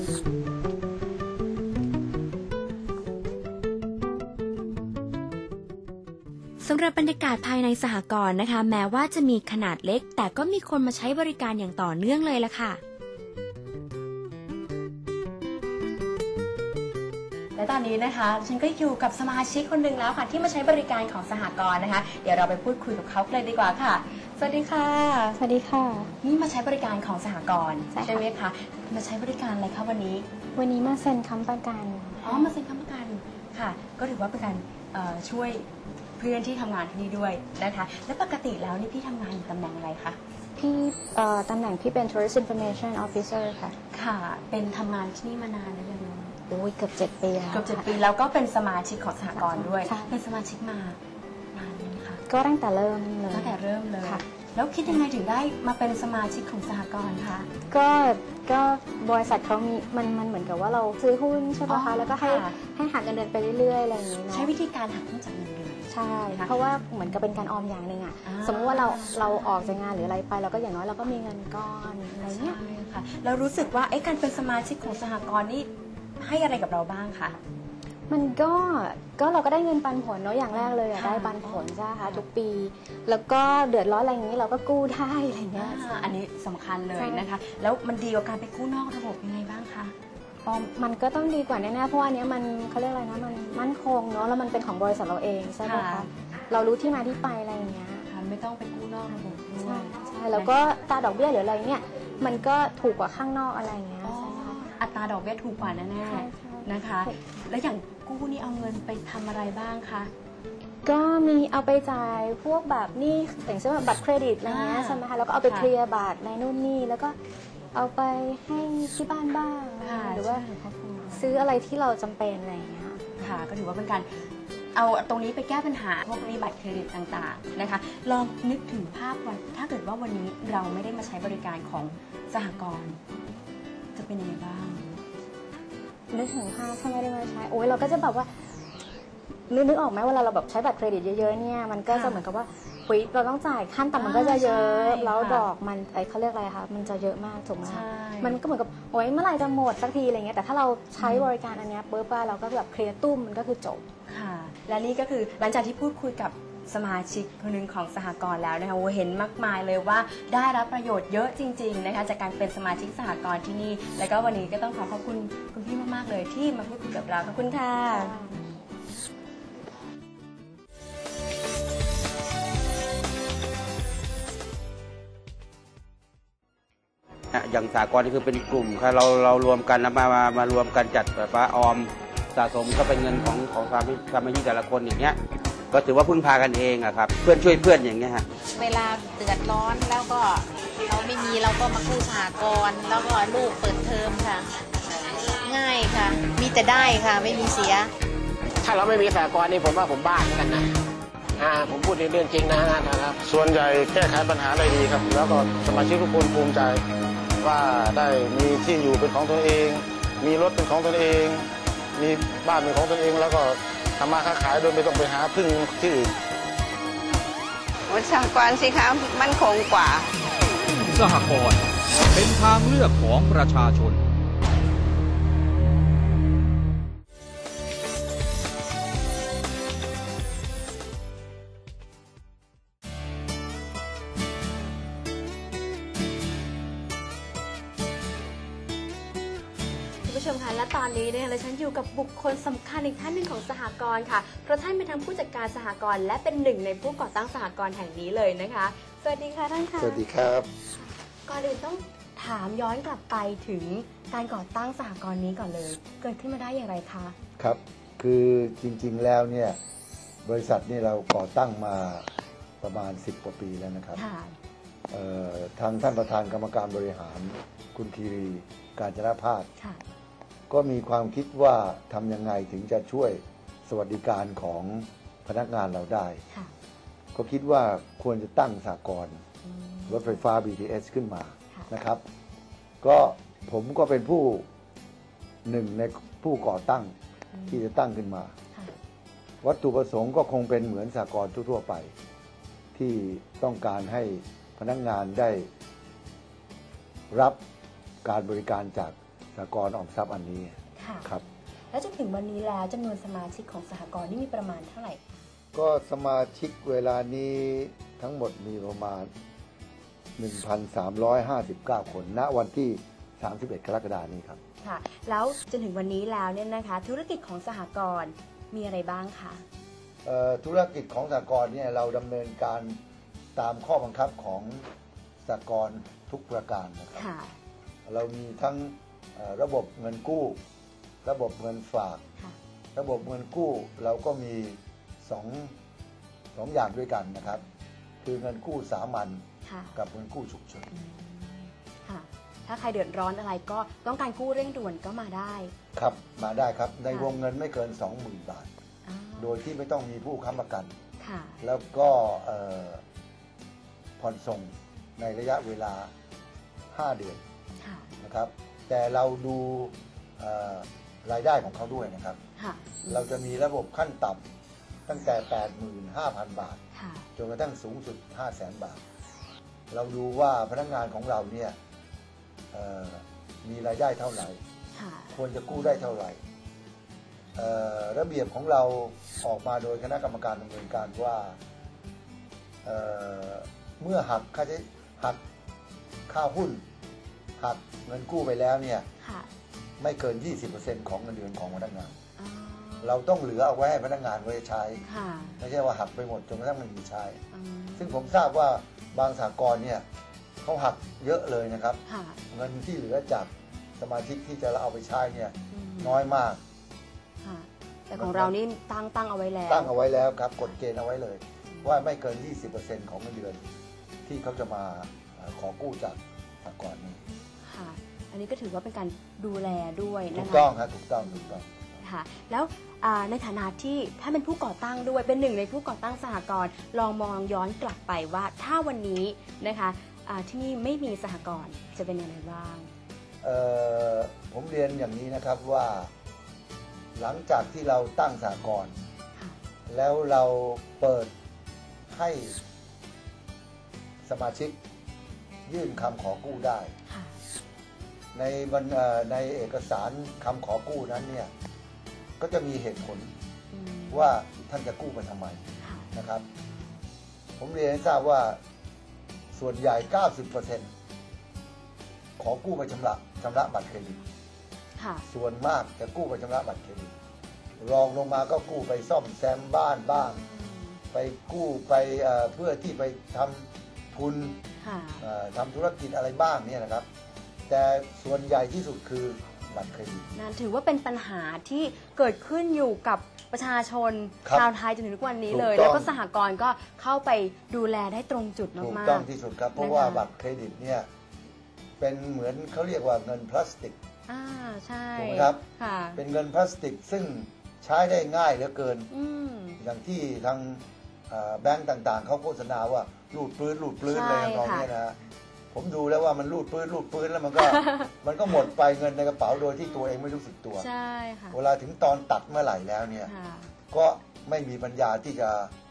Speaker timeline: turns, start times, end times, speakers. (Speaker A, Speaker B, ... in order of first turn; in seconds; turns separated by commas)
Speaker A: 6.6-12.8, Speaker B: 17.6-25.3, Speaker C: 25.3-26.1, Speaker B: 26.2-30.2, Speaker C: 27.9-28.2, Speaker C: 30.6-32.5, Speaker B: 32.2-40.2, Speaker C: 40.6-43.8, Speaker B: 43.9-46.4, Speaker C: 46.5-47.9, Speaker B: 47.5-51.0, Speaker C: 49.3-50.1, Speaker B: 51.5-52.2, Speaker C: 52.3-54.2, Speaker B: 53.3-57.5, Speaker C: 57.7-64.5, Speaker B: 61.7-62.5, Speaker B: 64.3-66.5, Speaker C: 65.9-72.6, Speaker B: 68.2-69.8, Speaker B: 72.2-77.4, Speaker C: 78.1-85.9, Speaker B: 80.5-82.2, Speaker B: 85.6-89.9, Speaker C: 87.0-87.3, Speaker C: 90.4-98.0, Speaker B: 95.6-96.1, Speaker B: 98.0-100.5, Speaker C: 99.6-104.6, Speaker B: 104.0-110.1, Speaker C: 106.0-107.2, Speaker C: 110.8-117.2, Speaker B: 114.5-115.7, Speaker C: 117.7-120.5, Speaker B: 119.8-121.4, Speaker C: 121.1-123.0, Speaker B: 123.2-133.0, Speaker B: 133.9-135.0, Speaker C: 136.1-138.3, Speaker C: 139.5-153.8, Speaker B: 141.9-142.2, Speaker B: 143.9-145.5, Speaker B: 147.6-148.4, Speaker B: 151.0-151.3, Speaker B: 154.1-168.1, Speaker C: 167.9-168.4, Speaker D: 177.3-185.2, Speaker D: 185.7-188.2, Speaker E: 188.6-194.5, Speaker E: 195.1-197.9, Speaker F: 198.6-200.7, Speaker F: 201.4-203.2, Speaker G: 203.2-206.8, Speaker G: 207.4-216.1, Speaker H: 217.9-220.1, Speaker I: 220.9-221.6, Speaker I: 222.1-224.0, Speaker B: 240.0-250.0, Speaker J: 249.8-250.5, Speaker B: 250.8-257.1, Speaker J: 257.4-259.6, Speaker J: 260.2-262.1, Speaker J: 262.6-264.0, Speaker B: 263.9-264.4, Speaker J: 264.9-269.5, Speaker J: 270.5-276.2, Speaker J: 277.1-279.2, Speaker B: 279.4-280.2, Speaker J: 279.9-282.0, Speaker J: 282.8-284.5, Speaker J: 285.4-286.9, Speaker B: 287.3-287.6, Speaker J: 287.5-288.3, Speaker J: 289.4-291.9, Speaker J: 292.7-295.5, Speaker J: 297.1-297.4, Speaker J: 298.0-301.2, Speaker B: 300.8-301.1, Speaker B: 301.7-305.2, Speaker J: 305.5-309.1, Speaker J: 310.2-314.4, Speaker B: 314.6-319.4, Speaker J: 320.0-322.8, Speaker J: 323.3-324.7, Speaker J: 325.2-327.1, Speaker B: 326.9-327.3, Speaker J: 327.9-330.4, Speaker J: 331.0-332.0, Speaker J: 332.7-335.5, Speaker J: 336.3-337.4, Speaker J: 338.0-339.2, Speaker B: 339.4-339.8, Speaker J: 339.7-340.7, Speaker B: 340.7-345.5, Speaker J: 345.7-348.5, Speaker B: 348.9-349.4, Speaker J: 349.2-350.7, Speaker B: 351.0-351.4, Speaker J: 351.4-352.8, Speaker J: 354.0-355.9, Speaker J: 356.7-357.2, Speaker B: 357.6-357.9, Speaker J: 358.0-362.2, Speaker B: 362.4-363.0, Speaker J: 362.9-364.2, Speaker J: 364.9-366.6, Speaker B: 366.7-367.1, Speaker J: 367.1-368.8, Speaker J: 369.7-371.6, Speaker J: 372.5-374.4, Speaker B: 374.7-375.9, Speaker J: 375.1-376.2, Speaker J: 377.4-381.4, Speaker J: 382.6-385.2, Speaker J: 386.1-386.6, Speaker J: 387.4-388.9, Speaker B: 389.0-389.3, Speaker J: 389.8-392.0, Speaker B: 392.2-392.9, Speaker J: 392.8-394.8, Speaker B: 394.9-395.4, Speaker J: 395.4-397.2, Speaker B: 397.3-398.1, Speaker J: 397.8-399.8, Speaker J: 400.4-406.4, Speaker B: 401.9-402.2, Speaker B: 405.5-406.0, Speaker B: 407.2-409.7, Speaker J: 407.9-408.3, Speaker J: 409.5-413.4, Speaker B: 411.5-411.8, Speaker J: 414.0-417.0, Speaker B: 417.4-420.5, Speaker J: 420.1-421.8, Speaker B: 421.0-432.7, Speaker J: 433.2-435.9, Speaker J: 436.9-438.8, Speaker J: 439.7-441.1, Speaker J: 441.9-442.4, Speaker J: 444.0-444.6, Speaker J: 445.4-446.7, Speaker B: 446.9-447.1, Speaker J: 448.1-451.3, Speaker J: 452.2-453.1, Speaker B: 453.5-454.1, Speaker J: 453.9-456.2, Speaker B: 455.6-455.9, Speaker J: 457.4-458.4, Speaker J: 459.3-460.7, Speaker J: 462.2-464.1, Speaker B: 464.8-465.0, Speaker J: 465.1-466.9, Speaker J: 467.6-470.2, Speaker B: 469.9-470.8, Speaker J: 470.9-474.4, Speaker B: 474.6-475.0, Speaker J: 475.0-476.9, Speaker J: 477.5-480.1, Speaker B: 480.1-490.0, Speaker J: 484.2-484.5, Speaker J: 485.3-485.9, Speaker J: 488.5-490.9, Speaker J: 491.8-493.8, Speaker B: 494.1-496.0, Speaker J: 494.9-495.4, Speaker J: 495.9-498.9, Speaker B: 498.9-499.6, Speaker J: 499.6-505.0, Speaker B: 503.9-504.7, Speaker J: 505.5-510.6, Speaker B: 507.4-507.9, Speaker B: 510.6-511.4, Speaker J: 511.3-513.1, Speaker B: 513.0-513.5, Speaker J: 513.7-515.5